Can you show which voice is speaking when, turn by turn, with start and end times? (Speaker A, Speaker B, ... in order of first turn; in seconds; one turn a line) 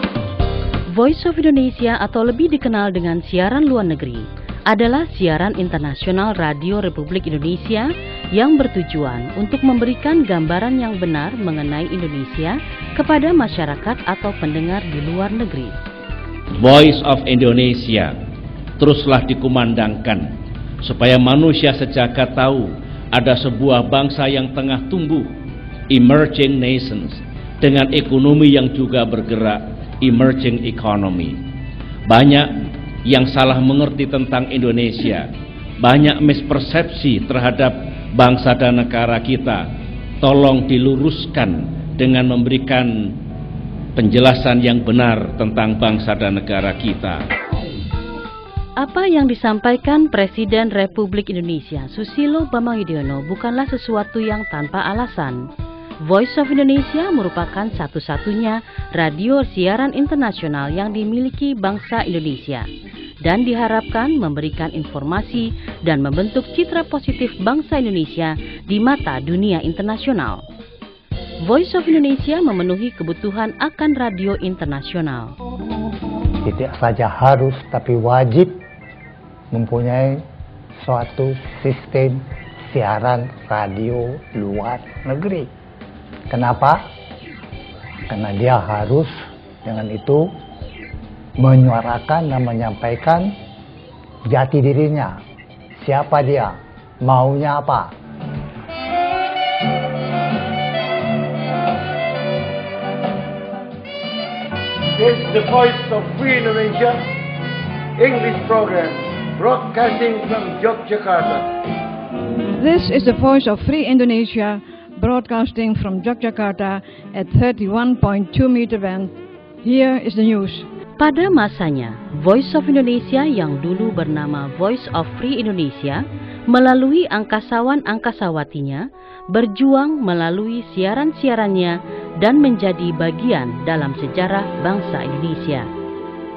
Speaker A: 0.9-15.8
Speaker B: 16.6-18.2
Speaker B: 18.8-20.3
Speaker B: 20.8-25.3
Speaker B: 25.9-31.4
Speaker B: 32.1-35.3
Speaker B: 35.8-39.6
Speaker B: 40.2-43.2
Speaker B: 44.0-47.2
Speaker A: 48.8-55.5
Speaker A: 56.0-62.7
Speaker A: 63.2-70.4
Speaker A: 71.4-75.3
Speaker C: 76.4-78.6
Speaker C: 79.5-80.2
Speaker C: 80.8-85.5
Speaker C: 86.3-86.8
Speaker C: 88.1-89.1
Speaker C: 89.6-90.3
Speaker C: 91.4-93.3
Speaker C: 94.3-95.2
Speaker C: 95.8-97.9
Speaker D: 105.0-107.0
Speaker D: 108.0-111.5
Speaker E: 112.6-119.1
Speaker E: 119.7-120.7
Speaker A: 121.0-135.7